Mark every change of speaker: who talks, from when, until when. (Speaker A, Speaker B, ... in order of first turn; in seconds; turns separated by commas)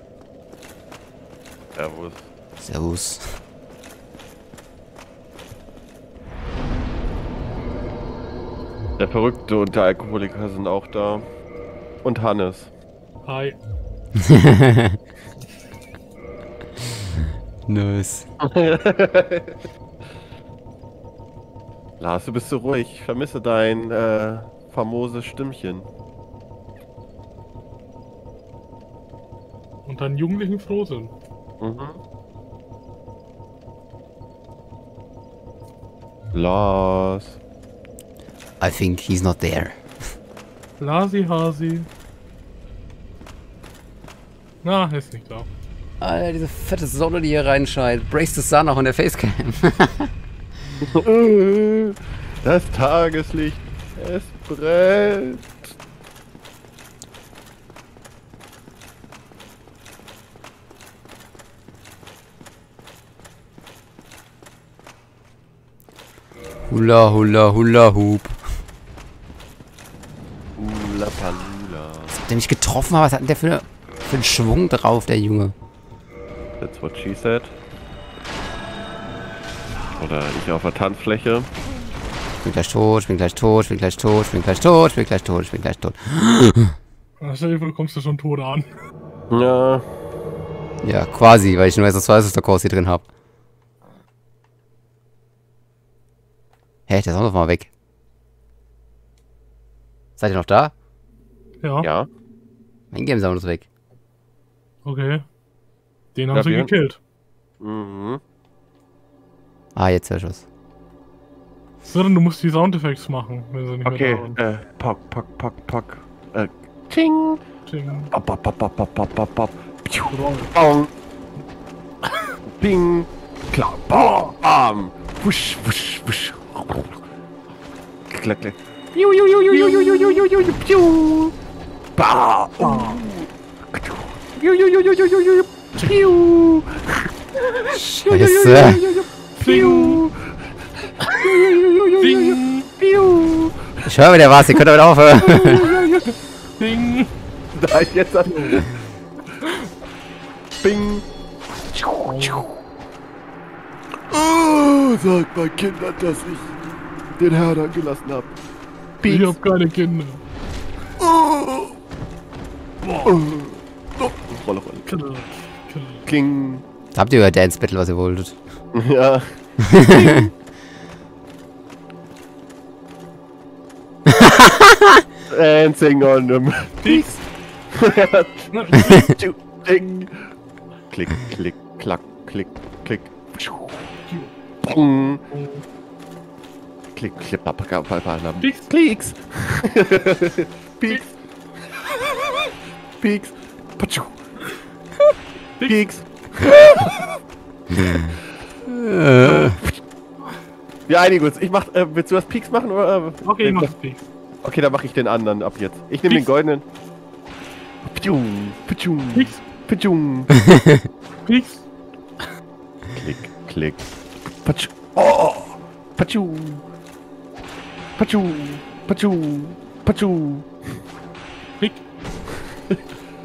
Speaker A: 1.8-2.3, Speaker B: 2.6-3.4, Speaker A: 9.0-11.3, Speaker A: 12.0-12.7, Speaker C: 13.2-13.6, Speaker B: 14.2-15.0, Speaker B: 17.7-18.3, Speaker A: 18.4-19.6, Speaker A: 22.0-25.9, Speaker C: 29.9-31.1, Speaker A: 31.6-32.0, Speaker A: 36.3-37.4, Speaker B: 38.6-39.8, Speaker C: 40.8-41.9, Speaker C: 44.6-45.5, Speaker B: 46.0-50.1, Speaker A: 50.8-55.7, Speaker B: 66.7-68.6, Speaker A: 70.6-72.2, Speaker B: 72.1-75.5, Speaker A: 76.6-77.5, Speaker A: 79.9-81.5, Speaker B: 82.4-86.8, Speaker C: 87.2-88.7, Speaker A: 89.3-89.9, Speaker B: 90.8-93.0, Speaker B: 96.9-97.7, Speaker B: 100.2-100.7, Speaker C: 101.6-101.9, Speaker A: 101.8-102.1, Speaker B: 102.9-103.7, Speaker C: 104.8-105.2, Speaker C: 106.2-107.0, Speaker A: 106.3-106.7, Speaker A: 107.6-108.2, Speaker B: 109.8-110.5, Speaker C: 111.8-114.4, Speaker A: 113.8-117.4, Speaker C: 117.7-118.1, Speaker A: 118.1-120.9, Speaker C: 120.1-120.5, Speaker A: 122.4-127.0, Speaker A: 128.1-131.4, Speaker C: 129.5-130.2, Speaker A: 132.0-143.9, Speaker C: 132.6-133.0, Speaker B: 138.1-138.8, Speaker C: 139.4-140.0, Speaker C: 142.0-142.7, Speaker B: 143.8-145.7, Speaker A: 145.2-146.2, Speaker C: 145.4-147.1, Speaker A: 147.5-148.8, Speaker C: 148.3-148.7, Speaker C: 149.4-149.7, Speaker A: 150.6-151.1, Speaker A: 151.7-152.5, Speaker C: 152.1-152.5, Speaker A: 154.1-156.6, Speaker A: 157.2-158.4, Speaker A: 159.0-159.4, Speaker C: 159.1-160.2, Speaker A: 161.0-161.8, Speaker C: 162.8-163.2, Speaker A: 163.0-165.1, Speaker C: 164.9-166.1, Speaker A: 166.1-166.7, Speaker B: 166.9-168.4, Speaker A: 168.7-170.3, Speaker B: 169.6-170.2, Speaker B: 174.1-175.0, Speaker A: 175.3-177.2, Speaker C: 176.8-177.2, Speaker A: 177.7-180.3, Speaker C: 178.5-179.2, Speaker A: 180.9-184.1, Speaker A: 184.6-185.2, Speaker C: 185.3-185.6, Speaker A: 186.9-191.1, Speaker C: 188.4-188.7, Speaker A: 193.0-194.2, Speaker C: 195.6-195.9, Speaker A: 195.6-197.1, Speaker B: 197.8-198.1, Speaker B: 198.7-199.6, Speaker A: 199.2-199.8, Speaker A: 200.9-203.7, Speaker C: 203.2-204.0, Speaker A: 204.4-206.7, Speaker A: 207.8-210.3, Speaker C: 209.1-209.4, Speaker B: 210.5-210.8, Speaker C: 211.3-211.7, Speaker A: 212.9-213.9, Speaker A: 214.4-216.7, Speaker A: 218.0-220.5